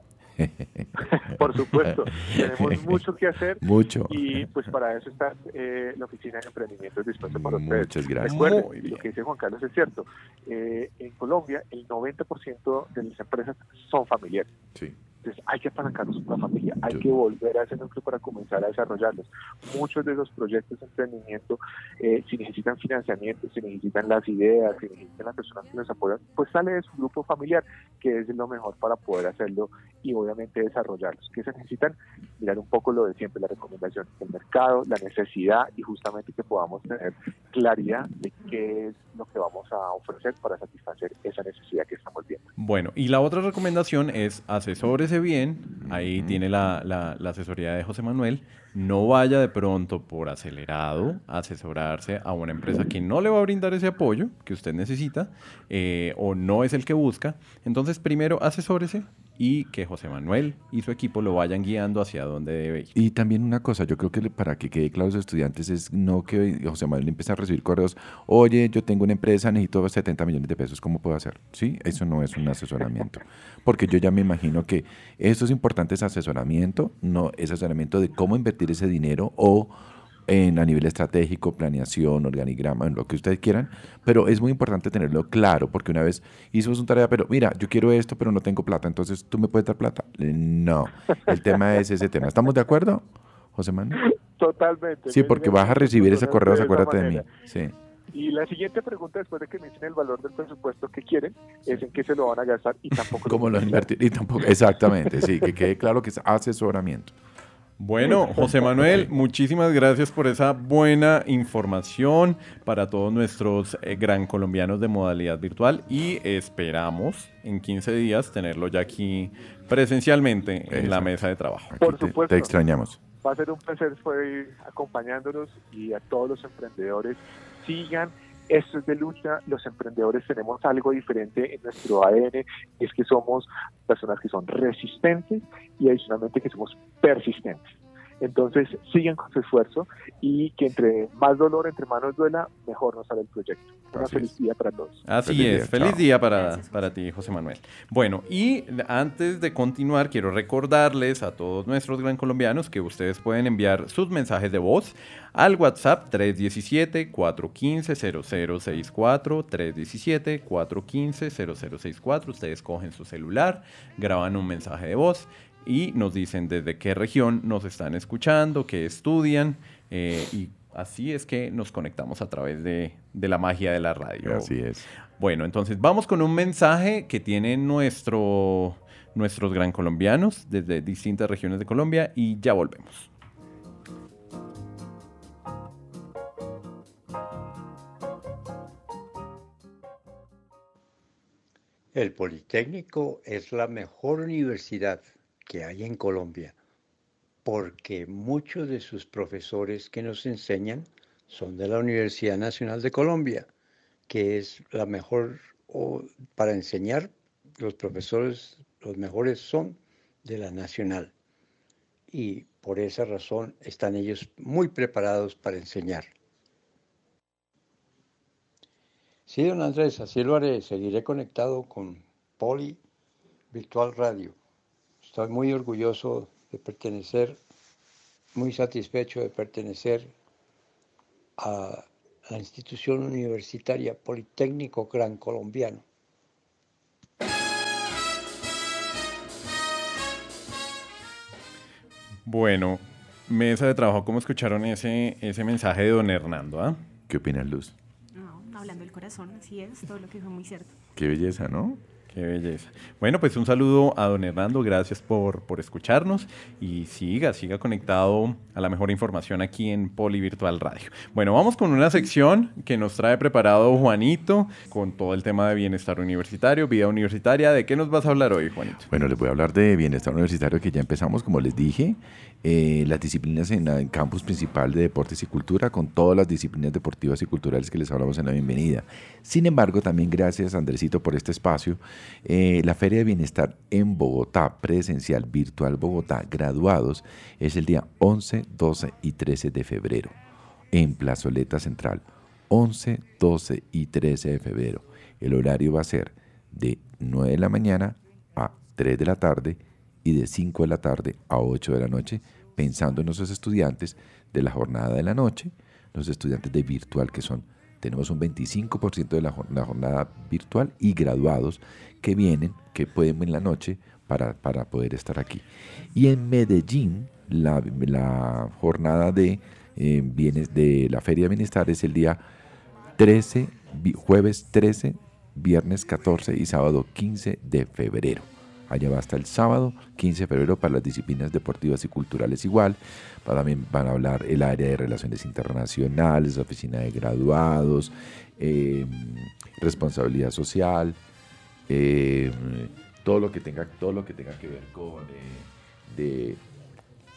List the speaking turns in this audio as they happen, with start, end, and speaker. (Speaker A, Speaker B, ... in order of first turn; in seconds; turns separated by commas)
Speaker A: 0.4-3.0, Speaker B: 1.4-14.5, Speaker A: 3.6-4.4, Speaker A: 7.2-8.4, Speaker C: 8.2-9.0, Speaker B: 15.2-42.5, Speaker C: 42.6-62.9, Speaker A: 45.8-46.4, Speaker A: 62.9-79.7, Speaker A: 80.3-94.0, Speaker B: 94.4-97.2, Speaker A: 95.1-97.7, Speaker B: 98.1-103.8, Speaker A: 103.3-107.1, Speaker C: 107.8-121.7, Speaker A: 108.4-109.0, Speaker A: 120.7-121.1, Speaker A: 121.7-123.0, Speaker B: 121.8-122.5, Speaker B: 123.2-145.0, Speaker A: 143.9-144.3, Speaker C: 145.1-174.5, Speaker A: 145.2-146.0, Speaker D: 146.3-146.9, Speaker A: 174.2-174.8, Speaker C: 175.2-183.1, Speaker E: 191.9-196.5, Speaker E: 197.4-203.5, Speaker E: 204.1-211.1, Speaker E: 212.1-216.1, Speaker E: 219.3-222.8, Speaker E: 223.5-224.4, Speaker E: 225.0-227.4, Speaker E: 228.3-230.1, Speaker E: 231.4-235.8, Speaker C: 242.2-246.8, Speaker A: 247.1-247.7, Speaker D: 248.1-250.7, Speaker A: 250.9-251.8, Speaker C: 252.1-268.9, Speaker A: 268.9-290.1, Speaker A: 290.7-322.2, Speaker A: 323.0-341.0, Speaker A: 341.7-346.4